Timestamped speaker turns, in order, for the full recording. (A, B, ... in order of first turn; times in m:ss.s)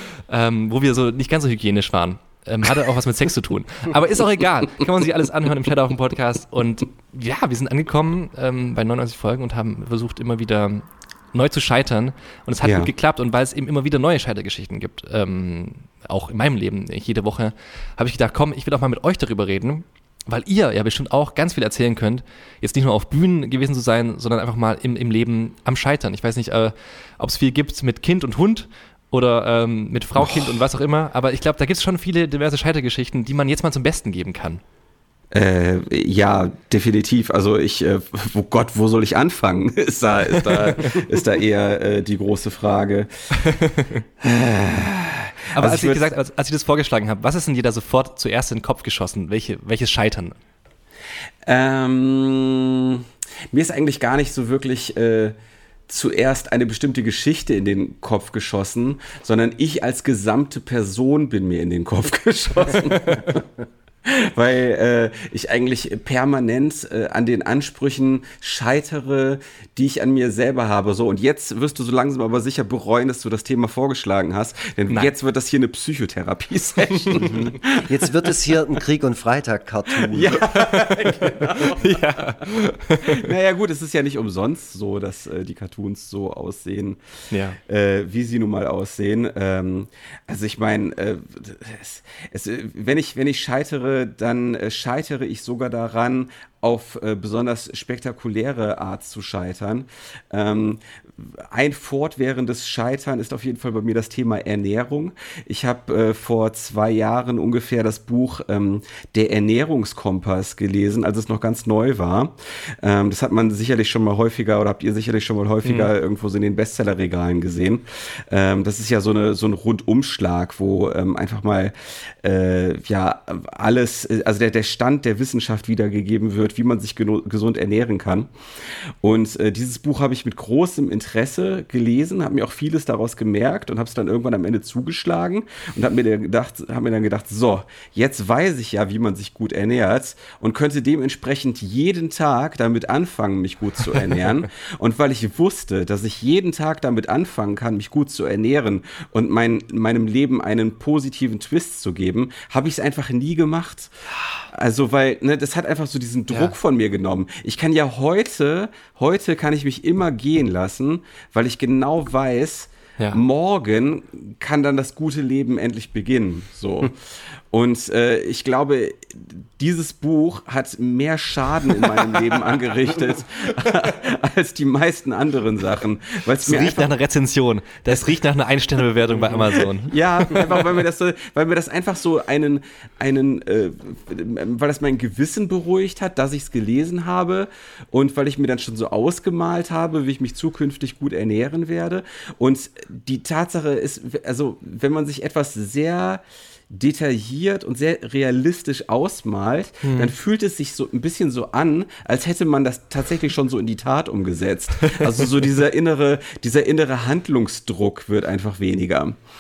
0:00.3-0:34.6 A
0:12.6-0:12.9 B
0:30.2-0:30.5 B
0:35.3-0:43.1 B
0:40.3-0:41.0 A
0:43.3-0:44.0 A
0:44.2-0:46.1 B
0:45.5-0:50.4 A
0:51.4-0:55.3 B
0:55.9-1:03.5 B
1:02.9-1:03.3 A
1:04.0-1:17.9 B
1:17.1-1:17.5 A
1:17.2-1:20.4 C
1:20.1-1:22.2 B
1:20.5-1:23.3 A
1:23.0-1:27.0 B
1:27.3-1:27.6 A
1:27.6-2:08.3 B
1:55.6-1:55.9 A
2:09.0-2:33.9 B
2:34.5-2:46.9 B
2:47.5-2:56.9 B
2:56.4-3:00.6 A
2:59.1-3:29.2 B
3:19.8-3:20.1 A